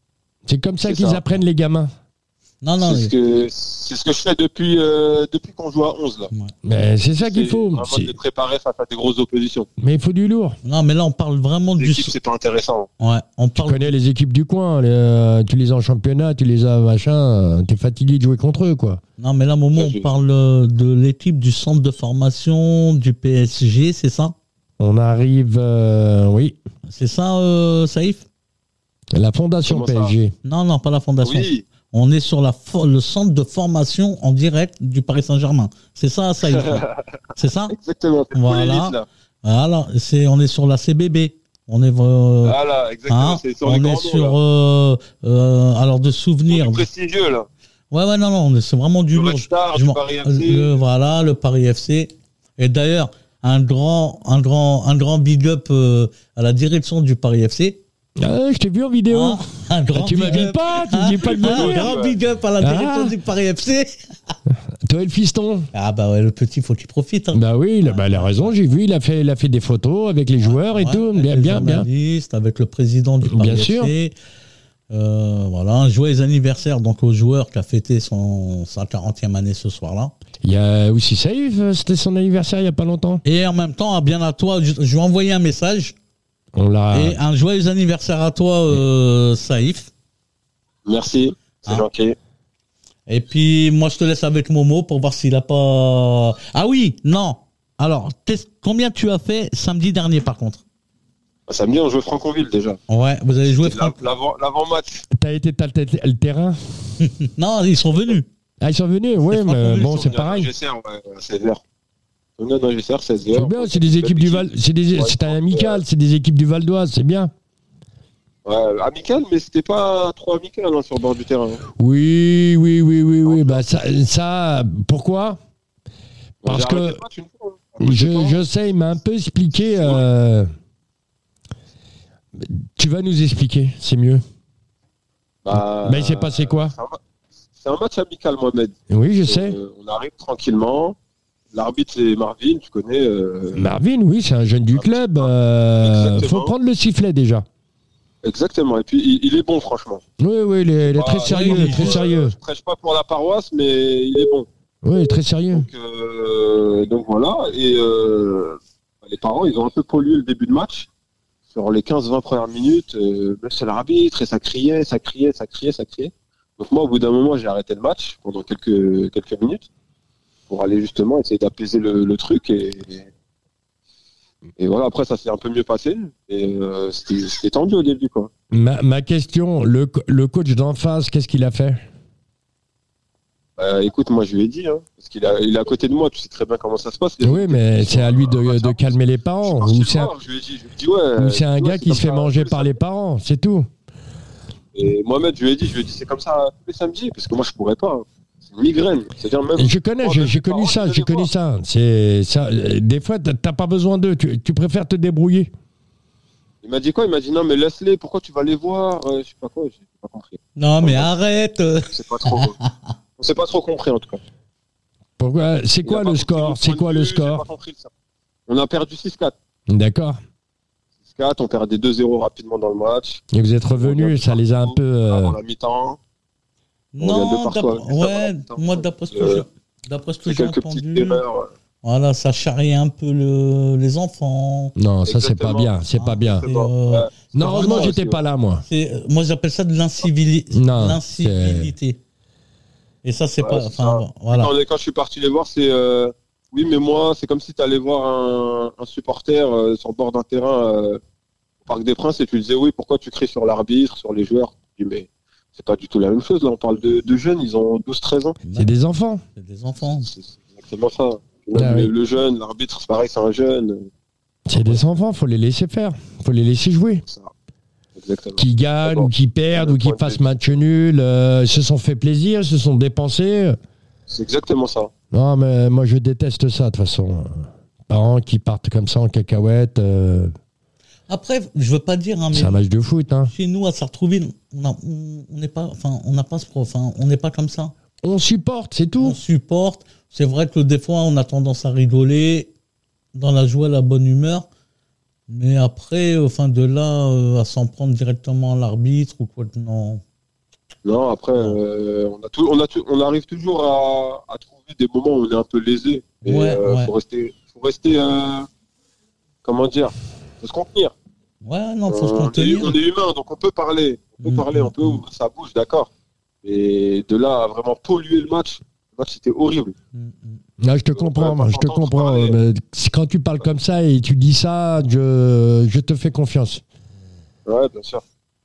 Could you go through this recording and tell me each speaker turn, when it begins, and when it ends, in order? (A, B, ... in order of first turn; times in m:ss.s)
0:00.5-0:01.9 A
0:00.8-0:01.2 B
0:02.6-0:03.1 C
0:02.8-0:06.3 B
0:06.6-0:08.1 A
0:07.2-0:09.7 B
0:09.8-0:10.6 A
0:10.6-0:12.1 C
0:11.8-0:12.9 B
0:13.0-0:13.9 C
0:13.6-0:19.0 A
0:19.2-0:24.4 C
0:19.8-0:20.1 B
0:24.8-0:26.6 A
0:26.9-0:28.2 C
0:29.1-0:30.4 A
0:29.7-0:30.1 B
0:30.4-0:36.8 C
0:31.2-0:31.6 B
0:36.6-0:37.0 B
0:37.4-0:37.8 C
0:37.7-0:39.1 B
0:38.3-0:42.6 C
0:42.4-0:44.4 B
0:43.1-0:46.9 C
0:46.5-0:47.5 B
0:47.9-0:57.8 C
0:49.1-0:50.8 B
0:58.2-1:01.9 A
0:59.1-1:04.0 C
1:01.2-1:02.2 B
1:02.6-1:03.2 A
1:04.8-1:05.7 A
1:05.7-1:08.6 C
1:07.3-1:11.9 A
1:10.4-1:14.1 C
1:13.3-1:13.9 A
1:14.9-1:20.1 C
1:20.4-1:23.2 A
1:23.2-1:26.0 C
1:26.6-1:27.2 A
1:26.9-1:29.9 C
1:30.9-1:32.2 B
1:33.1-1:40.6 C
1:41.5-1:42.8 B
1:42.9-1:43.9 C
1:43.6-1:45.1 B
1:45.1-1:46.6 A
1:47.0-1:48.3 C
1:48.6-1:50.5 A
1:49.4-1:49.7 C
1:49.5-1:51.6 B
1:52.4-1:55.8 B
1:53.3-1:57.3 A
1:58.4-2:01.6 B
2:01.8-2:05.4 A
2:03.2-2:03.6 B
2:06.4-2:07.0 A
2:06.4-2:08.4 B
2:07.8-2:10.5 A
2:09.8-2:10.0 B
2:12.4-2:14.2 A
2:15.4-2:17.0 B
2:15.6-2:16.7 A
2:17.6-2:21.0 B
2:18.9-2:19.6 A
2:21.5-2:23.7 B
2:23.6-2:27.5 A
2:24.7-2:26.5 B
2:28.2-2:30.0 B
2:30.2-2:32.4 A
2:30.8-2:35.0 B
2:31.3-2:32.0 C
2:34.8-2:35.7 A
2:35.5-2:40.9 B
2:41.5-2:49.7 B
2:50.5-2:53.1 B
2:54.6-2:58.3 B
2:58.5-3:01.8 A
3:03.6-3:12.8 B
3:07.2-3:10.1 A
3:11.2-3:13.7 A
3:14.8-3:21.3 B
3:19.6-3:25.5 A
3:26.6-3:31.1 B
3:30.6-3:32.7 C
3:31.9-3:32.6 B
3:33.2-3:34.2 B
3:35.2-3:37.4 A
3:35.8-3:37.9 B
3:38.5-3:39.3 B
3:39.7-3:40.2 A
3:41.1-3:43.2 B
3:43.3-3:45.4 A
3:43.8-3:46.0 B
3:47.0-3:51.2 C
3:47.0-3:49.4 B
3:50.3-3:51.5 B
3:51.8-3:54.8 C
3:54.8-3:56.5 A
3:55.0-3:58.2 B
3:56.0-3:57.9 C
3:57.4-3:58.6 A
3:58.7-4:02.0 C
4:00.5-4:01.7 A
4:03.0-4:04.5 C
4:03.4-4:11.0 B
4:11.7-4:18.4 B
4:18.4-4:18.7 C
4:18.6-4:19.2 A
4:19.4-4:20.1 C
4:20.0-4:23.9 B
4:21.6-4:21.9 A
4:24.5-4:27.0 A
4:24.5-4:24.8 B
4:28.0-4:30.4 B
4:28.4-4:33.6 A
4:34.1-4:34.9 B
4:35.1-4:40.3 A
4:41.1-4:42.6 C
4:42.3-4:43.3 A
4:43.3-4:47.7 C
4:48.0-4:49.2 A
4:49.0-4:52.5 C
4:53.2-4:54.5 C
4:55.3-5:00.0 C
5:00.8-5:08.5 B
5:06.2-5:06.9 C
5:09.4-5:10.9 B
5:11.4-5:12.8 C
5:11.9-5:15.9 B
5:14.2-5:15.0 C
5:16.4-5:19.8 B
5:19.9-5:20.4 C
5:20.6-5:26.6 A
5:20.9-5:22.4 B
5:27.5-5:28.0 B